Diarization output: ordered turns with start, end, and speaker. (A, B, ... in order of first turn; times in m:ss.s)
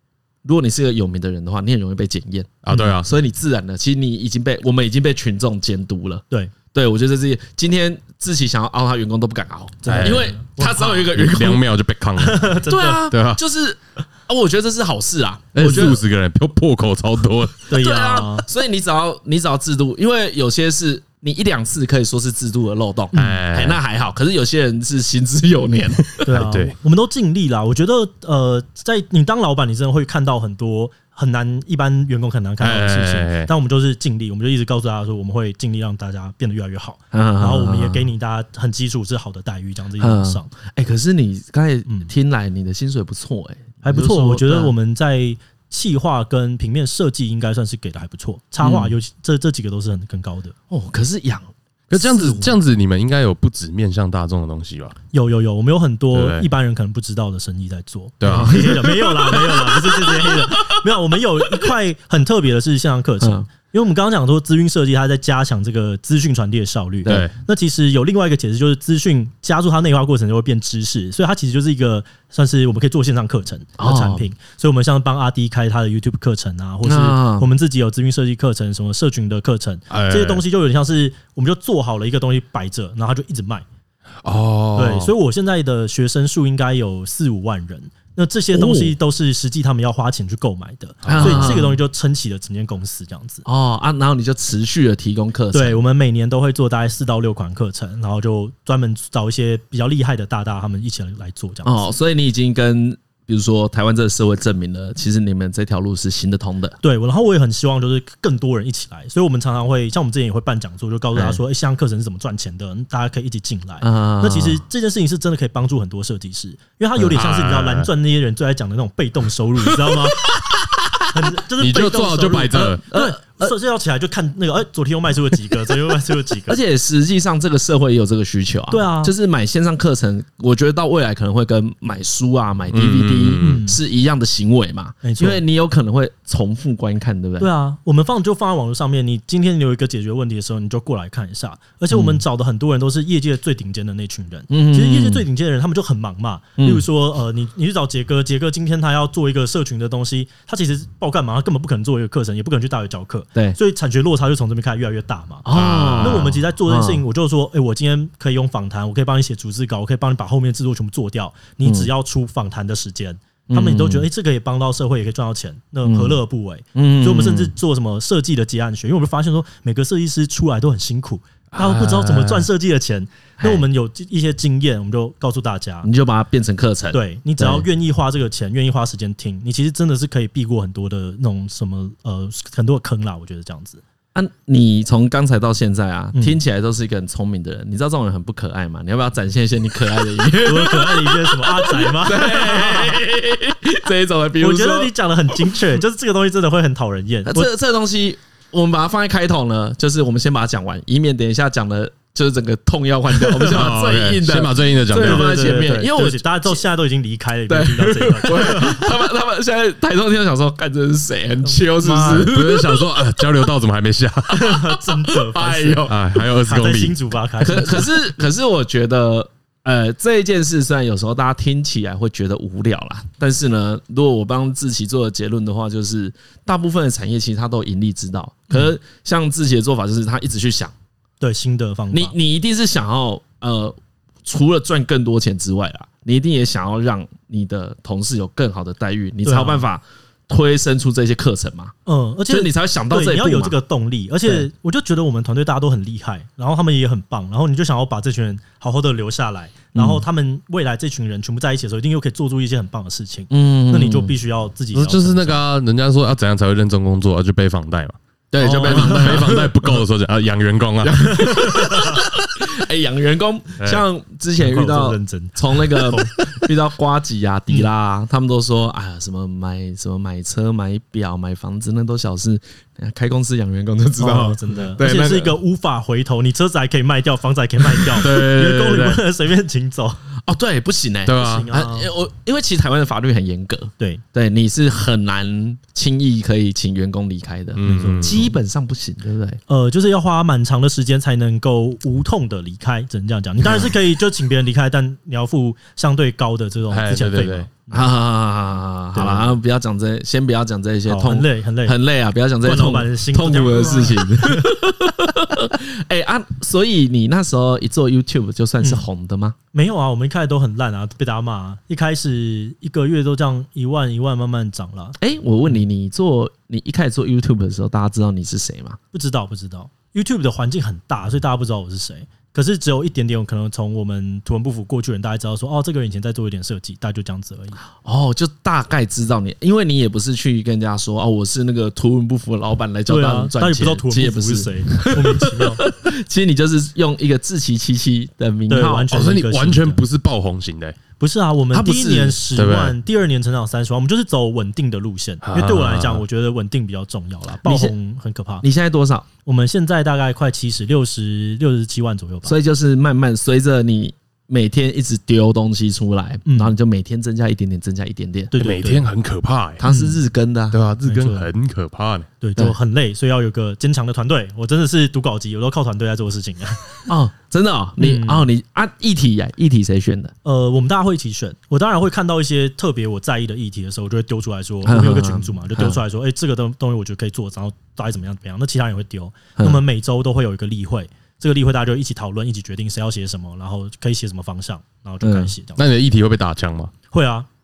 0:00.4-0:11.6 A
0:02.6-0:03.1 B
0:09.8-0:11.2 C
0:09.9-0:10.4 B
0:11.1-0:12.6 B
0:12.2-0:13.0 C
0:12.7-0:16.0 A
0:13.1-0:13.4 B
0:15.5-0:17.6 B
0:17.7-0:18.5 C
0:17.7-0:26.2 A
0:23.1-0:23.4 C
0:23.1-0:23.8 B
0:26.2-0:40.5 C
0:26.3-0:26.7 B
0:32.6-0:33.5 B
0:37.1-0:38.1 A
0:40.0-0:44.7 A
0:43.8-0:50.6 C
0:48.6-0:49.0 A
0:50.7-0:51.5 A
0:51.9-0:55.0 B
0:51.9-0:52.5 C
0:55.1-1:23.6 C
0:56.1-0:56.5 B
0:58.2-0:58.6 B
0:58.3-1:00.8 A
1:03.2-1:03.5 A
1:07.1-1:07.3 B
1:13.8-1:14.3 A
1:16.8-1:17.5 A
1:19.9-1:20.4 B
1:24.2-1:25.1 B
1:24.8-1:33.4 C
1:28.5-1:29.0 A
1:31.0-1:31.6 B
1:31.1-1:31.8 A
1:33.4-1:35.8 A
1:35.5-1:41.9 C
1:41.6-1:46.8 A
1:46.8-2:00.2 C
1:51.1-1:51.4 A
1:53.8-1:54.6 A
1:57.2-1:57.9 B
1:59.8-2:00.9 A
2:01.1-2:06.6 C
2:01.6-2:02.8 B
2:02.6-2:03.5 A
2:06.5-2:17.5 A
2:08.7-2:09.1 C
2:12.7-2:13.6 B
2:13.4-2:13.8 C
2:15.0-2:15.4 C
2:17.4-2:55.9 C
2:21.9-2:22.2 A
2:24.5-2:25.3 A
2:26.6-2:26.8 A
2:35.4-2:37.0 A
2:35.5-2:36.3 B
2:41.6-2:41.9 A
2:43.5-2:44.1 A
2:45.8-2:46.2 A
2:46.8-2:47.5 A
2:51.6-2:52.3 B
2:53.4-2:53.7 A
2:55.8-2:57.7 A
2:56.9-3:03.8 C
3:04.2-3:15.6 A
3:06.1-3:06.4 C
3:10.4-3:13.0 C
3:14.4-3:17.5 C
3:17.2-3:26.6 A
3:23.4-3:25.4 B
3:25.0-3:28.9 C
3:27.5-3:33.0 A
3:31.4-3:32.4 C
3:32.0-3:34.6 B
3:34.3-3:38.0 C
3:34.3-3:36.0 A
3:35.9-3:37.0 B
3:37.4-3:50.7 A
3:51.2-3:52.2 C
3:51.9-4:01.7 A
3:59.2-3:59.6 C
4:01.9-4:15.4 C
4:02.3-4:03.6 A
4:09.8-4:10.0 A
4:13.3-4:14.1 A
4:14.7-4:21.2 B
4:18.3-4:19.8 A
4:18.4-4:19.4 C
4:20.8-4:35.4 A
4:21.3-4:22.0 C
4:24.4-4:26.4 C
4:34.0-4:40.0 C
4:38.0-4:39.0 B
4:40.2-4:49.4 A
4:41.1-4:41.5 B
4:41.2-4:41.9 C
4:47.6-4:48.3 B
4:47.6-4:48.4 C
4:49.5-4:57.9 C
4:53.4-4:53.7 A
4:56.7-4:57.5 B
4:57.7-5:09.4 A
4:58.9-4:59.4 C
5:00.9-5:01.8 C
5:02.4-5:04.5 C
5:09.5-5:15.0 C
5:15.0-5:18.8 A
5:18.9-5:27.6 C
5:27.7-5:38.9 A
5:32.9-5:35.6 C
5:38.5-5:39.8 C
5:38.9-5:40.8 B
5:41.0-5:48.5 C
5:41.5-5:42.2 A
5:42.4-5:42.8 B
5:45.2-5:46.0 B
5:47.4-5:47.7 A
5:48.4-5:49.1 A
5:49.3-5:52.4 C
5:52.2-5:58.4 A
5:56.2-5:56.5 C
5:58.3-5:58.8 C
5:58.4-5:59.6 B
5:59.6-6:00.6 A
5:59.7-6:00.0 C
6:00.5-6:02.1 B
6:00.8-6:01.3 C
6:02.2-6:06.9 C
6:06.9-6:10.1 A
6:07.8-6:08.3 C
6:10.2-6:25.6 C
6:14.6-6:15.8 A
6:19.4-6:19.6 A
6:25.0-6:25.3 A
6:25.6-6:26.7 B
6:26.9-6:27.3 C